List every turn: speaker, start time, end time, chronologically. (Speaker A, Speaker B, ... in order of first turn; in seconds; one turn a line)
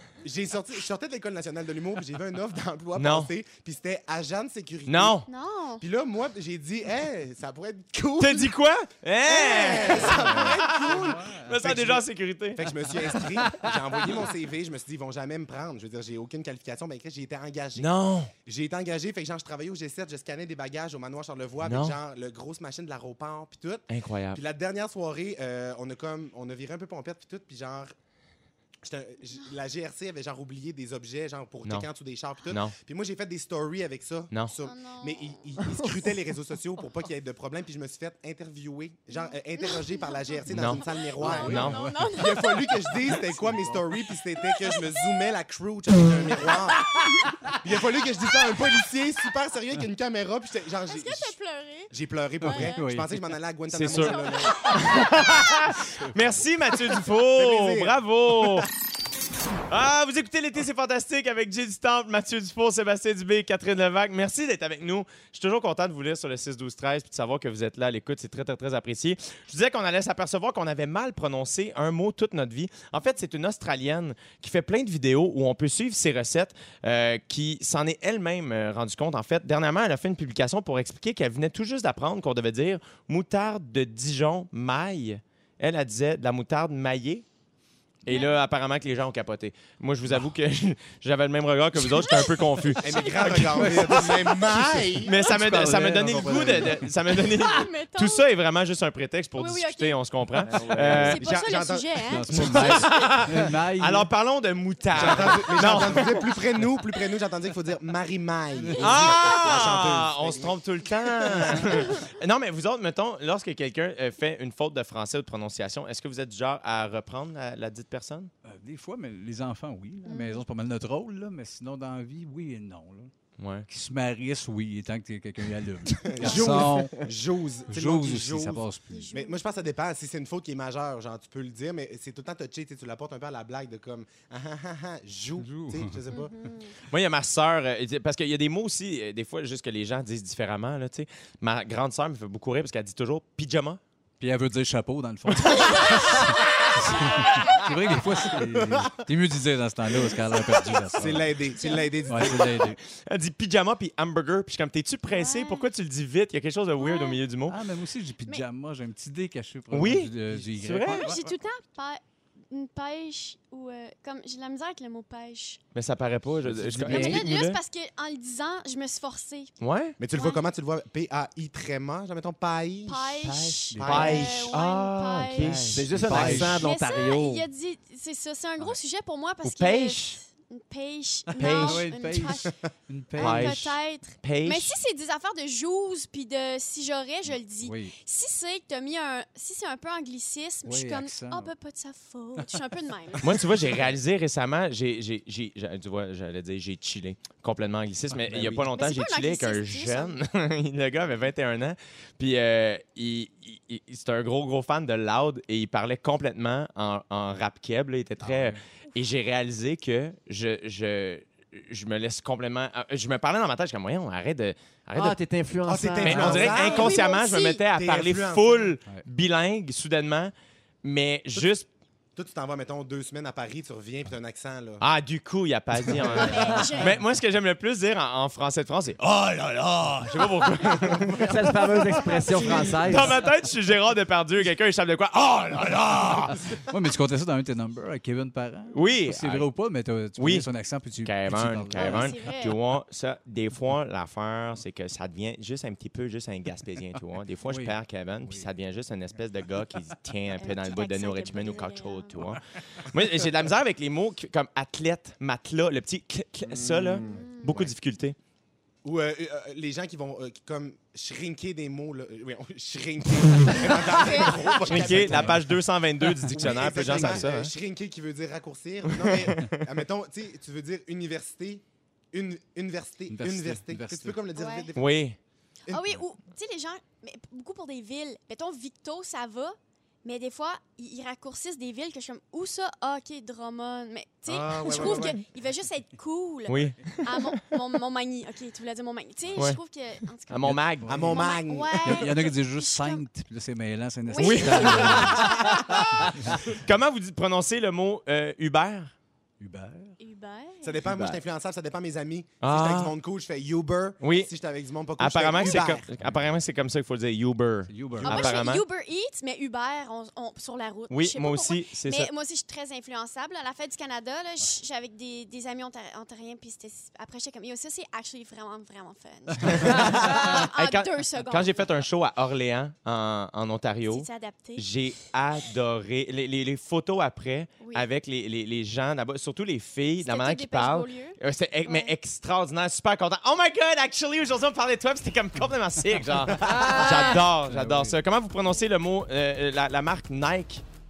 Speaker A: 0.2-5.2
Speaker B: 3.0-3.3
Speaker B: 4.9-5.2
Speaker C: 5.3-5.8
Speaker A: 5.8-8.5
Speaker B: 8.2-12.6
Speaker A: 9.2-27.9
Speaker C: 9.5-10.1
Speaker D: 10.1-11.6
Speaker B: 17.8-18.3
Speaker B: 21.6-21.9
Speaker B: 23.9-24.4
Speaker A: 28.8-46.8
Speaker C: 34.6-35.5
Speaker C: 39.1-43.1
Speaker B: 40.5-41.8
Speaker D: 41.2-43.8
Speaker C: 44.5-44.8
Speaker A: 47.6-51.4
Speaker C: 50.9-51.9
Speaker A: 51.9-55.0
Speaker C: 52.4-52.8
Speaker D: 52.4-53.3
Speaker B: 53.7-58.7
Speaker C: 53.9-55.1
Speaker A: 57.3-58.7
Speaker B: 59.7-87.2
Speaker B: 88.0-93.9
Speaker C: 92.0-93.4
Speaker A: 92.8-95.2
Speaker D: 93.4-96.9
Speaker B: 95.0-101.2
Speaker C: 97.2-98.2
Speaker C: 99.3-100.0
Speaker E: 100.4-101.2
Speaker C: 100.8-103.0
Speaker A: 101.0-102.8
Speaker D: 102.1-104.1
Speaker B: 102.5-106.2
Speaker A: 104.9-111.7
Speaker D: 108.6-109.3
Speaker B: 108.8-118.3
Speaker D: 118.5-123.1
Speaker C: 120.0-120.4
Speaker B: 123.4-123.7
Speaker D: 123.7-127.0
Speaker A: 126.0-136.3
Speaker D: 127.7-129.1
Speaker C: 128.9-129.4
Speaker D: 135.4-136.0
Speaker C: 136.1-136.7
Speaker B: 136.9-143.8
Speaker D: 144.2-151.3
Speaker C: 145.5-146.2
Speaker A: 148.5-148.9
Speaker A: 150.9-152.7
Speaker C: 151.5-152.3
Speaker D: 152.1-152.8
Speaker B: 153.0-157.6
Speaker C: 155.1-155.7
Speaker C: 156.8-157.2
Speaker D: 157.5-161.3
Speaker B: 159.7-161.1
Speaker C: 160.9-165.6
Speaker B: 165.7-167.6
Speaker D: 166.5-167.2
Speaker C: 166.8-169.5
Speaker B: 169.6-170.0
Speaker A: 170.0-174.5
Speaker C: 170.1-170.4
Speaker C: 172.8-182.5
Speaker D: 173.7-174.5
Speaker B: 173.8-176.4
Speaker D: 175.4-176.7
Speaker E: 175.7-177.4
Speaker B: 179.4-180.2
Speaker D: 181.3-183.6
Speaker B: 181.4-181.9
Speaker C: 183.1-193.4
Speaker B: 183.2-184.7
Speaker D: 187.6-187.9
Speaker D: 190.6-191.5
Speaker B: 193.2-215.2
Speaker D: 198.1-198.7
Speaker C: 198.7-200.2
Speaker D: 208.2-208.6
Speaker E: 214.9-216.6
Speaker A: 215.7-217.0
Speaker B: 216.0-220.3
Speaker C: 216.5-217.6
Speaker A: 217.7-218.7
Speaker B: 220.8-221.7
Speaker A: 222.2-224.8
Speaker B: 224.8-236.5
Speaker C: 226.2-227.0
Speaker E: 231.2-233.2
Speaker D: 236.2-242.1
Speaker B: 238.7-239.5
Speaker B: 240.2-240.5
Speaker B: 241.0-258.1
Speaker C: 241.7-242.6
Speaker D: 247.5-248.5
Speaker C: 250.4-252.2
Speaker E: 256.4-257.2
Speaker C: 257.1-257.5
Speaker A: 258.8-265.4
Speaker C: 263.8-264.6
Speaker B: 264.6-267.5
Speaker D: 264.8-265.4
Speaker A: 266.3-275.0
Speaker B: 268.9-269.6
Speaker D: 273.1-274.2
Speaker C: 274.3-274.7
Speaker B: 274.8-275.2
Speaker A: 275.7-275.9
Speaker C: 275.7-293.0
Speaker A: 284.3-285.2
Speaker B: 286.5-287.4
Speaker B: 290.3-290.9
Speaker D: 290.4-291.1
Speaker A: 290.9-292.1
Speaker D: 291.8-296.6
Speaker C: 294.1-296.1
Speaker B: 294.2-295.3
Speaker B: 296.5-298.9
Speaker D: 299.4-299.9
Speaker C: 300.0-300.8
Speaker A: 300.6-305.8
Speaker E: 300.8-301.2
Speaker B: 302.4-302.9
Speaker B: 304.0-304.3
Speaker B: 305.0-308.6
Speaker D: 306.0-306.3
Speaker D: 307.7-308.4
Speaker C: 308.0-321.6
Speaker B: 310.9-312.1
Speaker B: 319.4-340.6
Speaker C: 323.9-324.6
Speaker C: 327.6-327.9
Speaker C: 330.0-331.9
Speaker A: 336.5-336.8
Speaker C: 336.5-337.2
Speaker E: 336.6-337.1
Speaker D: 337.4-338.0